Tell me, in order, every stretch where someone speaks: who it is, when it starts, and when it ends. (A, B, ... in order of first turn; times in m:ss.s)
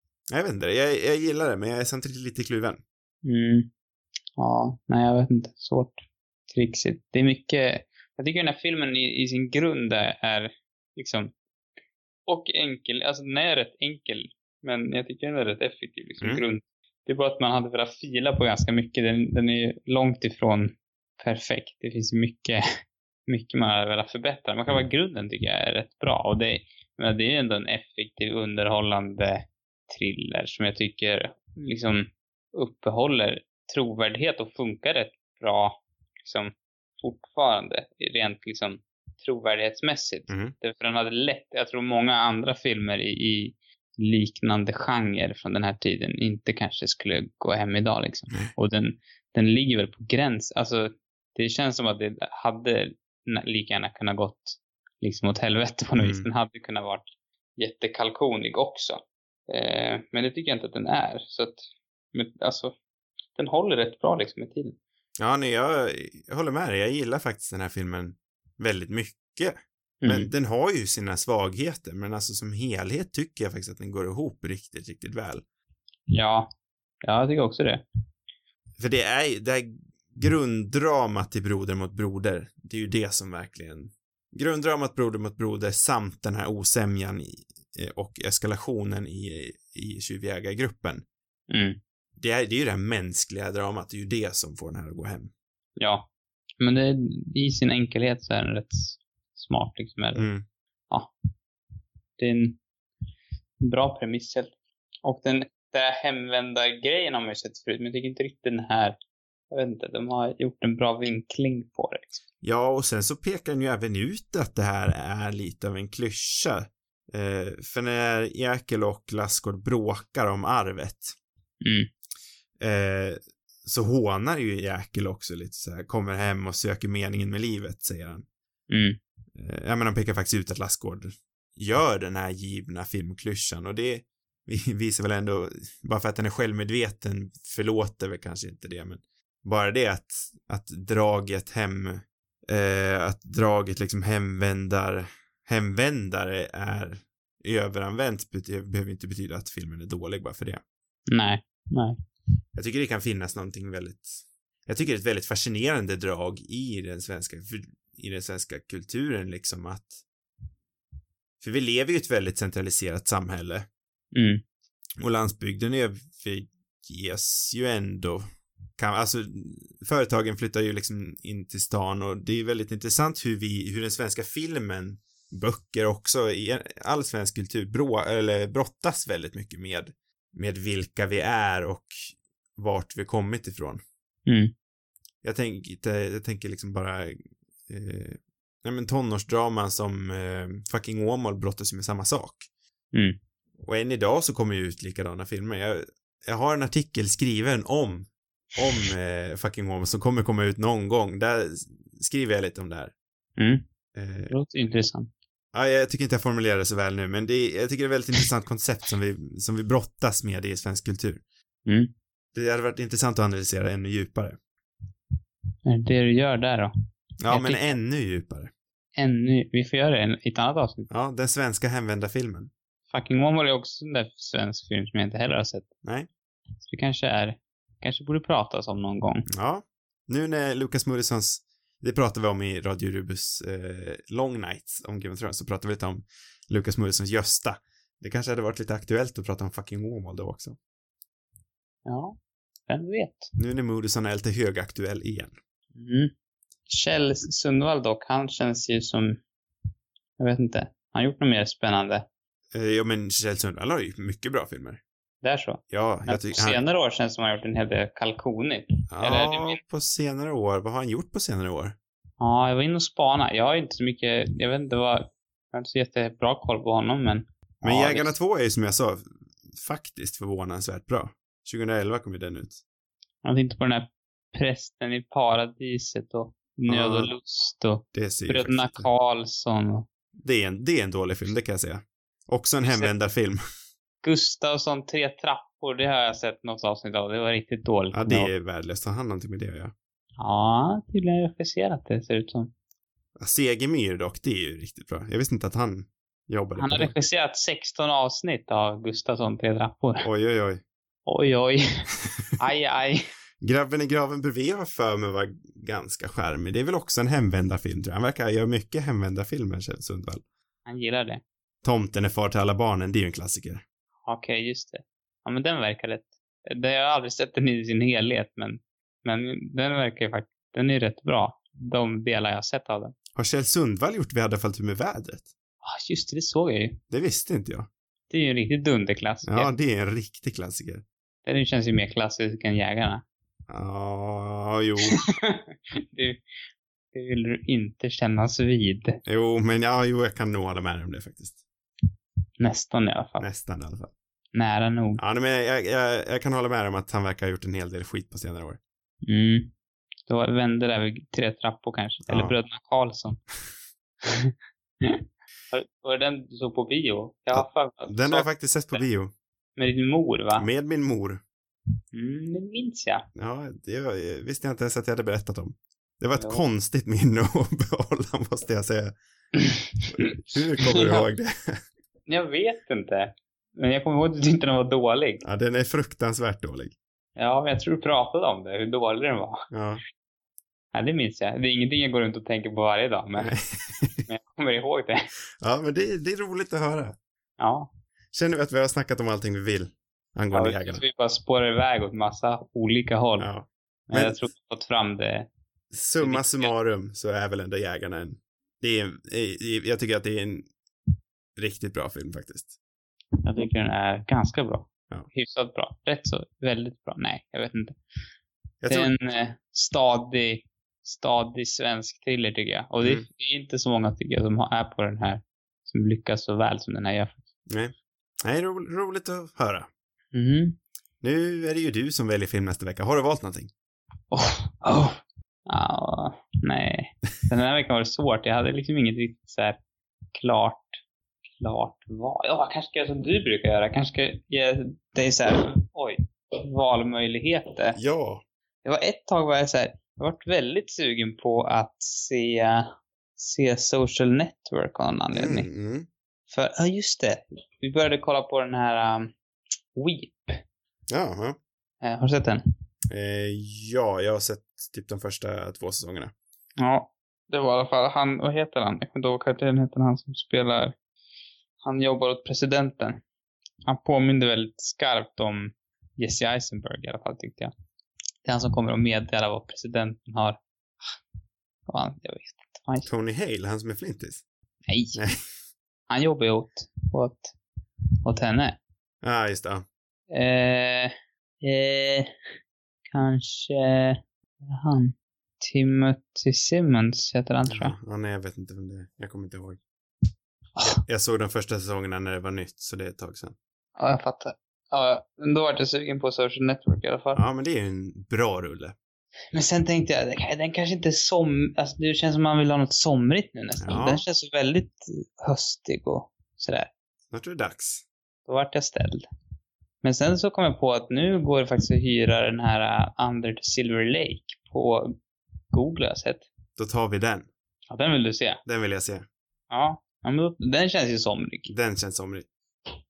0:00.3-0:02.8 A
0:03.2-0:03.7 B
0:04.4-0:11.3 B
0:12.3-0:22.6 B
0:23.3-1:01.6 B
0:40.3-0:40.6 A
0:56.0-0:56.3 A
1:02.1-1:02.8 B
1:03.4-1:04.8 B
1:05.2-1:15.4 A
1:10.0-1:10.3 B
1:16.1-1:16.5 B
1:17.0-1:17.8 B
1:18.8-1:31.0 A
1:31.5-1:31.8 B
1:32.2-1:35.3 A
1:35.8-1:36.1 B
1:36.6-1:40.3 B
1:40.2-1:40.4 A
1:42.2-1:42.6 B
1:43.6-1:44.5 B
1:45.0-1:49.0 B
1:49.5-1:52.2 B
1:52.4-2:01.2 A
2:01.6-2:01.9 B
2:02.6-2:08.3 A
2:08.7-2:09.0 B
2:09.4-2:30.6 A
2:31.1-2:32.0 B
2:32.6-2:40.0 A
2:41.4-2:43.7 A
2:44.1-2:44.4 B
2:45.0-2:48.3 A
2:48.8-3:03.8 A
3:04.3-3:04.5 B
3:05.2-3:12.5 A
3:13.6-3:22.9 A
3:23.4-3:23.6 B
3:24.0-3:24.3 A
3:24.3-3:25.1 B
3:25.5-3:31.2 A
3:31.7-3:31.9 B
3:32.3-3:34.4 A
3:35.6-3:36.7 B
3:37.2-3:38.5 A
3:37.3-3:37.8 B
3:39.0-3:40.9 B
3:40.9-3:42.5 A
3:42.9-3:45.7 B
3:45.8-3:46.1 A
3:46.6-3:49.3 B
3:49.3-4:00.6 A
4:01.8-4:03.3 B
4:03.4-4:05.4 A
4:05.8-4:06.1 B
4:06.7-4:09.2 B
4:10.2-4:12.1 B
4:12.5-4:14.8 A
4:15.2-4:19.6 B
4:15.7-4:16.6 A
4:18.9-4:21.8 A
4:22.2-4:28.1 B
4:27.6-4:32.6 A
4:33.2-4:39.9 B
4:36.7-4:37.1 A
4:37.9-4:38.9 A
4:40.2-4:43.4 A
4:42.6-4:42.9 B
4:44.0-4:48.3 B
4:47.9-4:49.7 A
4:50.2-4:52.5 B
4:53.2-4:56.9 A
4:56.6-5:00.1 B
5:00.0-5:00.6 A
5:01.1-5:01.6 B
5:02.4-5:03.0 B
5:03.4-5:10.2 A
5:10.7-5:11.2 B
5:11.6-5:13.6 A
5:14.1-5:23.0 B
5:23.2-5:25.3 A
5:25.6-5:26.8 B
5:26.9-5:27.7 A
5:28.1-5:29.5 B
5:29.2-5:30.8 A
5:31.2-5:33.0 B
5:33.5-5:35.0 A
5:35.0-5:36.2 B
5:36.9-5:39.0 B
5:39.1-5:41.3 A
5:42.4-5:43.2 B
5:43.2-5:43.9 A
5:44.3-5:45.0 B
5:45.0-5:48.6 A
5:49.0-5:49.5 B
5:50.1-5:53.2 B
5:52.1-5:52.4 A
5:54.0-5:58.8 B
5:57.3-5:59.1 A
5:59.6-6:00.5 B
6:00.4-6:01.2 A
6:01.9-6:03.0 B
6:03.2-6:09.0 A
6:06.2-6:06.4 B
6:09.5-6:09.8 B
6:09.9-6:11.6 A
6:12.1-6:15.2 B
6:15.2-6:16.8 A
6:17.2-6:19.4 B
6:19.5-6:19.8 A
6:20.7-6:23.4 B
6:23.2-6:24.1 A
6:24.1-6:25.0 B
6:25.4-6:27.0 A
6:27.4-6:27.7 B
6:28.1-6:30.8 A
6:30.3-6:33.3 B
6:33.2-6:34.3 A
6:33.9-6:35.3 B
6:35.7-6:40.5 A
6:36.0-6:36.5 B
6:41.4-6:42.5 A
6:43.2-6:47.8 B
6:48.6-6:48.9 A
6:48.7-6:57.2 B
6:52.8-6:53.1 A
6:57.5-6:59.7 A
7:00.1-7:00.6 B
7:01.0-7:03.5 A
7:04.1-7:09.6 B
7:10.1-7:10.8 B
7:11.4-7:17.8 B
7:17.8-7:18.2 A
7:18.6-7:25.5 B
7:25.1-7:25.9 A
7:26.3-7:29.1 B
7:29.8-7:30.4 B
7:30.9-7:31.4 A
7:31.8-7:32.4 B
7:32.9-7:36.1 A
7:36.6-7:40.8 B
7:41.6-7:43.0 B
7:43.7-7:47.5 B
7:48.2-7:51.0 B
7:51.7-7:52.9 B
7:52.8-7:54.2 A
7:54.7-7:55.0 B
7:55.0-7:55.2 A
7:55.9-7:57.4 B
7:58.0-7:58.6 B
7:59.0-7:59.6 A
8:00.1-8:02.2 B
8:02.9-8:07.8 B
8:07.5-8:09.6 A
8:10.6-8:10.8 B
8:10.6-8:13.4 A
8:13.8-8:17.2 B
8:17.1-8:18.8 A
8:19.3-8:26.7 B
8:23.6-8:24.0 A
8:27.1-8:27.8 A
8:28.3-8:29.1 B
8:29.8-8:34.9 B
8:35.5-8:36.3 B
8:36.6-8:37.3 A
8:37.7-8:38.4 B
8:38.4-8:39.0 A
8:39.5-8:41.5 B
8:41.5-8:42.3 A